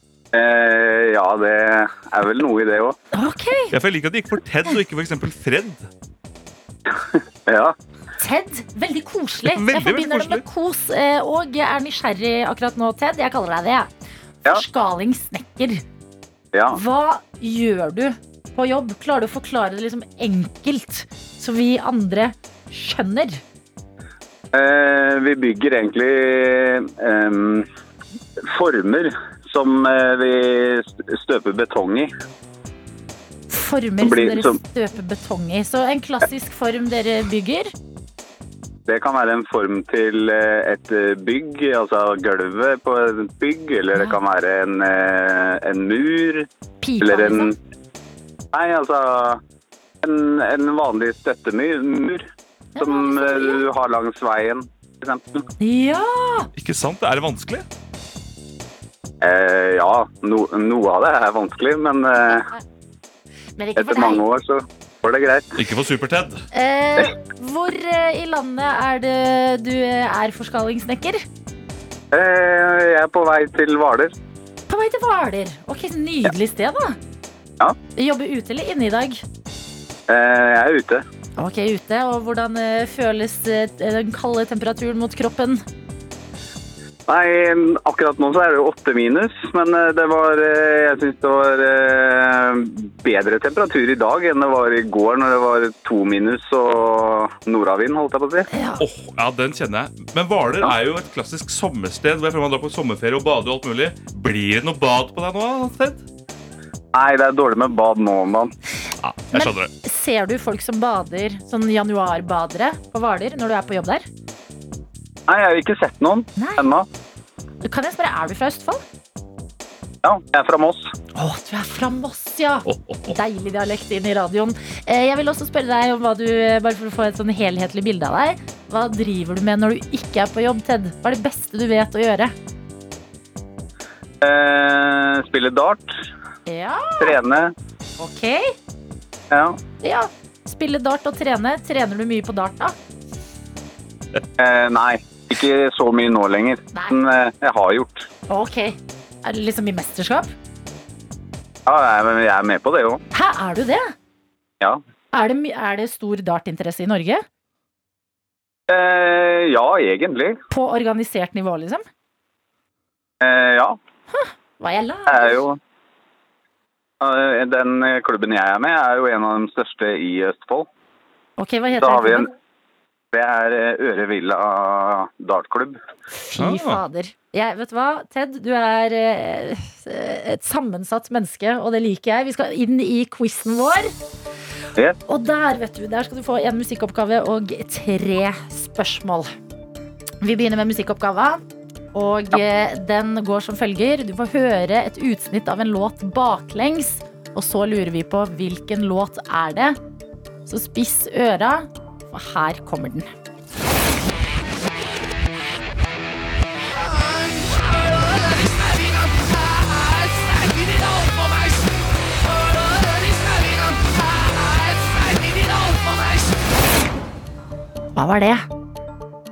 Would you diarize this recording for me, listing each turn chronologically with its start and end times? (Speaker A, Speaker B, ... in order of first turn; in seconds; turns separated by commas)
Speaker A: 0.3-3.0, Speaker B: 3.1-3.7, Speaker C: 3.7-5.9, Speaker A: 7.0-7.7, Speaker B: 8.2-13.9, Speaker C: 9.5-10.4, Speaker B: 14.5-15.8, Speaker A: 16.5-16.8, Speaker B: 16.7-23.4, Speaker A: 24.5-27.7, Speaker A: 28.5-32.1, Speaker B: 33.5-37.7, Speaker A: 34.0-34.6, Speaker A: 38.9-46.5, Speaker B: 46.8-47.5, Speaker A: 47.0-47.5, Speaker A: 48.5-49.4, Speaker A: 50.0-52.3, Speaker B: 52.8-53.6, Speaker A: 52.8-55.4, Speaker B: 55.6-56.5, Speaker C: 56.5-57.6, Speaker A: 59.2-62.5, Speaker B: 63.6-64.2, Speaker A: 63.8-65.5, Speaker C: 65.5-66.4, Speaker B: 66.5-71.2, Speaker A: 72.1-74.1, Speaker B: 74.7-77.0, Speaker B: 78.0-79.2, Speaker A: 80.1-81.0, Speaker B: 81.4-85.6, Speaker A: 87.1-98.5, Speaker B: 98.5-98.8, Speaker C: 98.8-106.0, Speaker A: 106.9-108.5, Speaker C: 109.0-109.7, Speaker B: 109.3-114.0, Speaker A: 115.3-116.8, Speaker B: 116.4-116.7, Speaker B: 117.6-118.8, Speaker A: 120.0-120.9, Speaker B: 121.1-132.3, Speaker C: 122.7-123.2, Speaker A: 134.2-135.9, Speaker B: 136.5-137.2, Speaker A: 137.0-137.5, Speaker B: 138.0-138.5, Speaker A: 139.3-139.6, Speaker B: 139.8-142.7, Speaker A: 144.4-148.1, Speaker B: 146.7-147.0, Speaker B: 148.3-150.3, Speaker A: 151.7-153.0, Speaker B: 153.1-153.9, Speaker B: 155.1-157.2, Speaker A: 158.7-160.3, Speaker B: 160.5-161.8, Speaker A: 163.2-163.8, Speaker B: 164.1-165.4, Speaker A: 165.1-165.6, Speaker A: 167.0-170.7, Speaker B: 171.4-172.3, Speaker A: 171.7-172.3, Speaker A: 173.1-175.8, Speaker B: 176.1-183.9, Speaker C: 176.4-176.8, Speaker B: 185.1-189.3, Speaker B: 190.2-191.4, Speaker B: 191.9-199.8, Speaker B: 200.4-203.1, Speaker B: 217.9-218.4